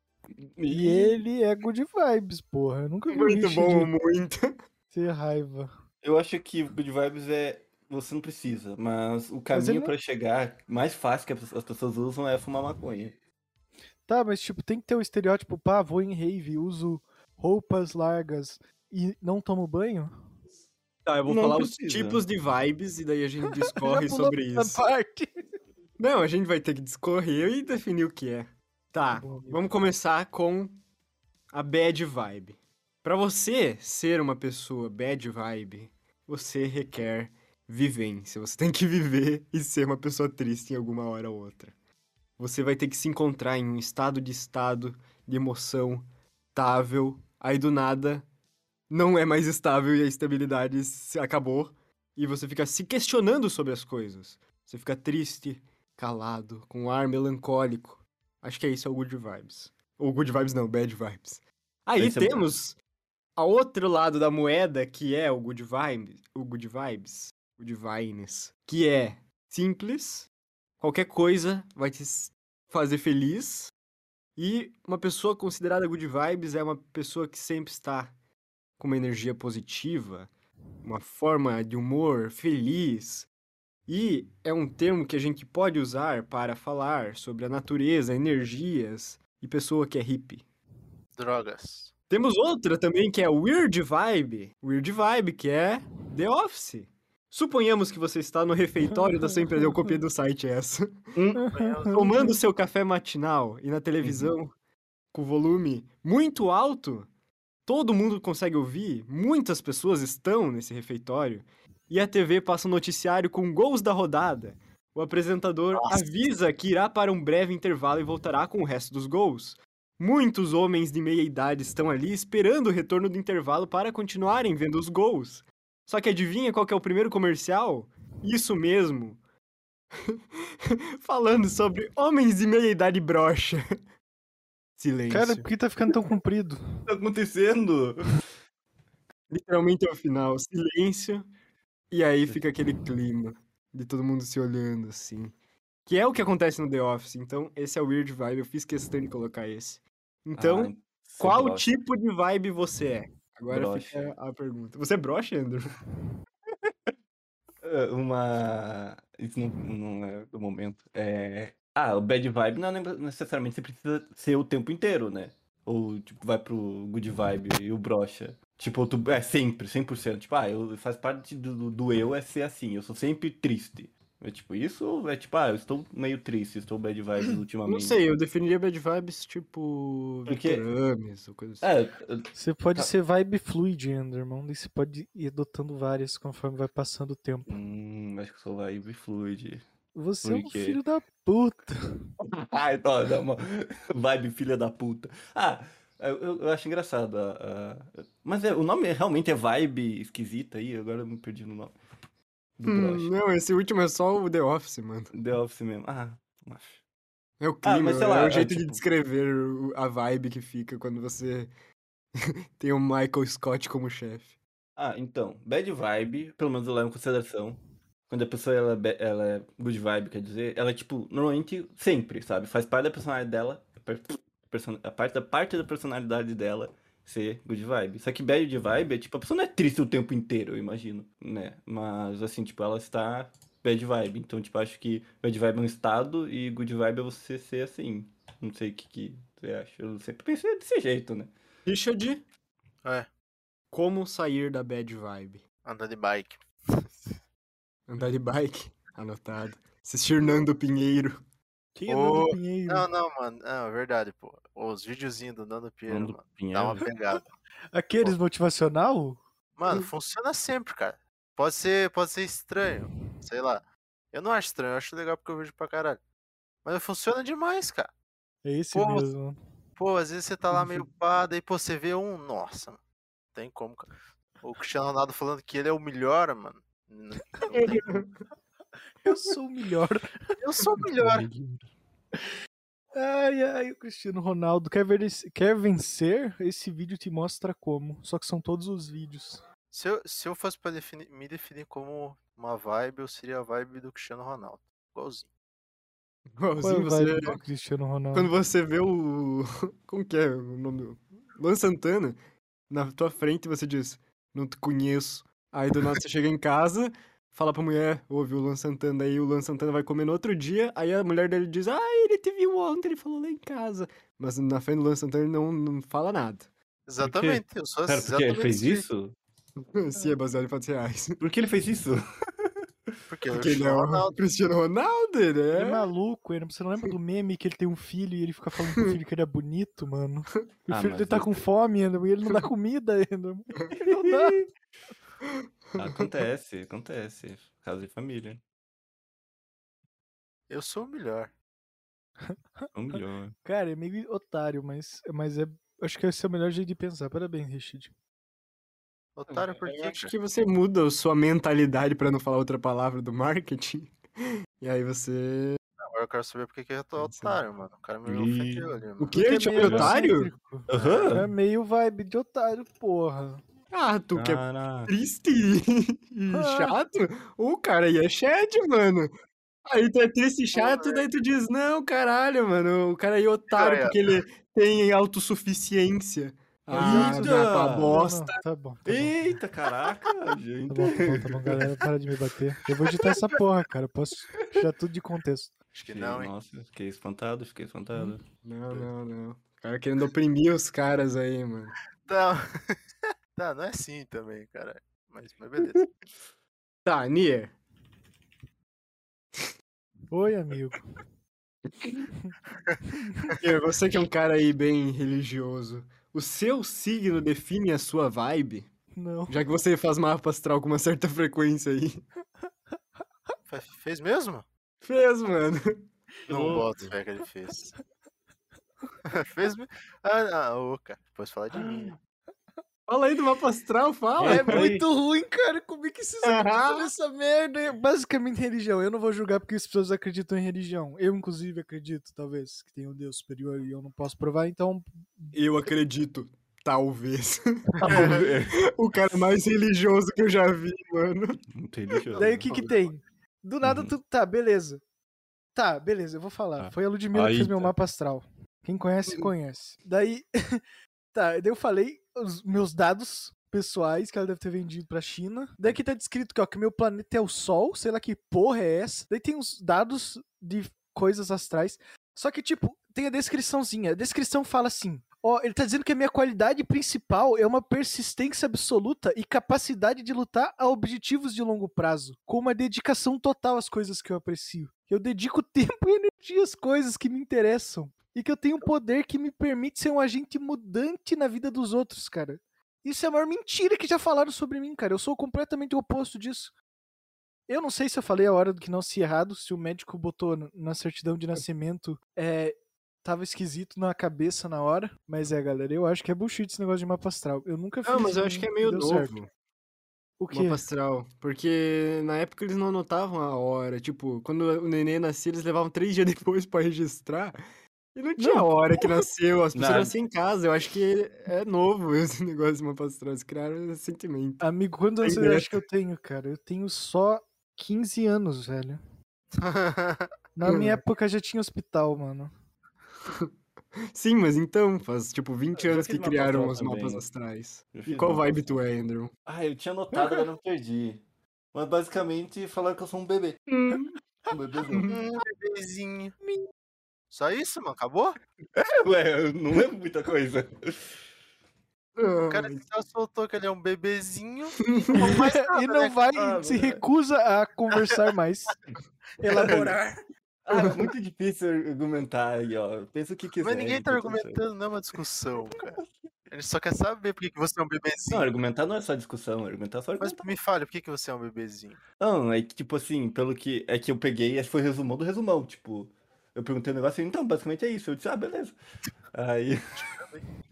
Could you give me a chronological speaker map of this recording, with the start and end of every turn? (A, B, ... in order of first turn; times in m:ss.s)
0:00.4-0:01.2 A
0:00.7-0:03.9 B
0:03.1-0:04.5 C
0:04.9-0:05.7 B
0:06.0-0:13.1 A
0:09.5-0:09.9 B
0:14.0-0:20.1 B
0:21.0-0:24.8 C
0:21.2-0:22.2 A
0:23.6-0:25.3 B
0:26.0-0:30.8 C
0:29.1-0:29.6 B
0:31.5-0:41.7 C
0:42.4-0:48.2 C
0:48.9-1:02.8 C
1:02.0-1:02.4 A
1:03.4-1:10.3 C
1:10.8-1:13.7 C
1:14.4-1:18.1 C
1:18.8-1:20.3 C
1:20.8-1:23.3 C
1:23.9-1:30.4 C
1:31.2-1:31.9 D
1:32.1-1:40.8 C
1:39.0-1:39.9 B
1:41.2-1:41.4 A
1:41.3-1:42.4 B
1:41.5-1:42.1 D
1:41.9-1:44.5 C
1:44.0-1:44.3 A
1:45.1-1:47.1 C
1:47.6-2:09.2 C
1:55.7-1:56.0 D
2:11.0-2:13.6 C
2:14.8-2:15.5 C
2:15.1-2:16.6 B
2:16.9-2:18.1 A
2:19.3-2:21.3 C
2:21.9-2:25.3 C
2:25.8-2:35.8 C
2:30.4-2:31.7 A
2:33.5-2:34.1 A
2:37.6-2:58.0 A
2:57.2-3:01.7 C
3:00.3-3:00.6 A
3:01.6-3:02.9 A
3:02.3-3:07.5 B
3:07.5-3:09.6 A
3:09.9-3:11.8 B
3:10.2-3:10.8 A
3:12.3-3:21.7 A
3:22.6-3:23.1 A
3:22.6-3:25.1 C
3:25.1-3:26.8 A
3:27.4-3:31.5 C
3:27.6-3:28.8 A
3:32.6-3:34.4 C
3:34.8-4:01.3 A
4:01.6-4:02.2 C
4:03.7-4:05.4 C
4:05.6-4:06.4 D
4:07.9-4:11.2 C
4:11.7-4:12.9 B
4:11.9-4:17.2 D
4:15.9-4:16.8 A
4:17.7-4:19.2 B
4:19.6-4:26.0 D
4:26.6-4:27.9 D
4:28.4-4:29.4 B
4:28.7-4:29.1 D
4:29.8-4:32.8 D
4:30.5-4:30.8 B
4:33.3-4:38.0 D
4:37.5-4:38.1 C
4:39.0-4:40.0 B
4:40.4-4:41.2 D
4:41.0-4:41.6 A
4:42.9-4:49.4 B
4:49.7-4:55.3 D
4:56.4-4:57.4 C
4:56.6-4:58.3 B
4:58.1-5:02.2 C
5:02.7-5:16.5 C
5:16.9-5:18.8 D
5:17.0-5:19.1 A
5:19.7-5:21.2 C
5:21.2-5:22.5 A
5:23.1-5:24.2 D
5:23.3-5:25.9 C
5:25.5-5:34.4 B
5:30.7-5:31.4 A
5:33.9-5:34.4 A
5:35.8-5:38.4 A
5:40.5-5:41.3 D
5:42.7-5:43.3 A
5:43.4-5:47.9 B
5:49.2-5:50.1 D
5:49.3-5:55.6 C
5:55.8-5:59.2 D
5:57.0-5:57.4 C
5:58.0-5:58.7 A
5:59.0-6:00.3 C
5:59.1-6:03.4 B
5:59.6-5:59.9 A
6:00.7-6:01.3 A
6:00.8-6:01.1 D
6:03.7-6:09.1 C
6:04.1-6:04.9 A
6:06.3-6:06.8 B
6:09.7-6:18.3 C
6:10.5-6:11.0 D
6:13.5-6:14.2 D
6:16.7-6:19.4 B
6:16.7-6:18.0 A
6:18.8-6:21.7 A
6:20.7-6:25.5 B
6:25.7-6:26.3 D
6:25.9-6:28.2 A
6:28.4-6:31.7 C
6:32.1-6:32.8 D
6:33.4-6:35.8 D
6:36.8-6:37.5 C
6:40.1-6:40.9 B
6:43.4-6:48.7 C
6:49.0-6:49.4 B
6:49.3-6:52.0 C
6:53.5-6:54.4 D
6:54.8-6:55.8 C
6:56.3-6:56.9 A
6:56.3-6:57.7 D
6:59.1-7:01.9 D
7:01.5-7:02.0 A
7:02.9-7:04.6 C
7:04.2-7:04.9 A
7:04.2-7:15.3 B
7:06.2-7:06.9 C
7:15.3-7:21.4 C
7:17.8-7:18.6 A
7:17.9-7:18.2 D
7:21.5-7:22.5 A
7:22.2-7:24.8 B
7:23.6-7:23.9 A
7:25.5-7:30.6 B
7:26.6-7:27.7 A
7:31.1-8:06.5 B
8:07.5-8:19.1 B
8:17.8-8:19.3 C
8:20.2-8:20.6 B
8:20.3-8:27.4 C
8:27.9-8:34.4 C
8:28.2-8:28.9 B
8:29.5-8:29.9 A
8:34.4-8:38.8 B
8:35.0-8:35.6 C
8:39.4-8:40.1 D
8:40.4-8:42.3 B
8:40.5-8:40.7 C
8:43.9-8:49.1 C
8:45.5-8:47.0 A
8:47.7-8:48.6 A
8:49.2-8:51.0 A
8:51.5-8:53.4 A
8:53.5-8:53.9 C
8:54.3-8:54.9 A
8:54.9-8:56.1 D
8:57.1-8:58.2 D
8:58.6-9:01.0 A
9:02.0-9:02.6 C
9:02.3-9:06.2 D
9:04.6-9:05.1 C
9:05.0-9:08.6 B
9:06.1-9:06.8 A
9:09.2-9:09.9 B
9:09.2-9:09.8 A
9:10.4-9:14.4 A
9:13.4-9:15.8 D
9:16.3-9:18.3 D
9:18.1-9:20.2 A
9:20.0-9:21.8 D
9:22.0-9:28.6 A
9:29.1-9:29.6 A
9:29.7-9:30.2 D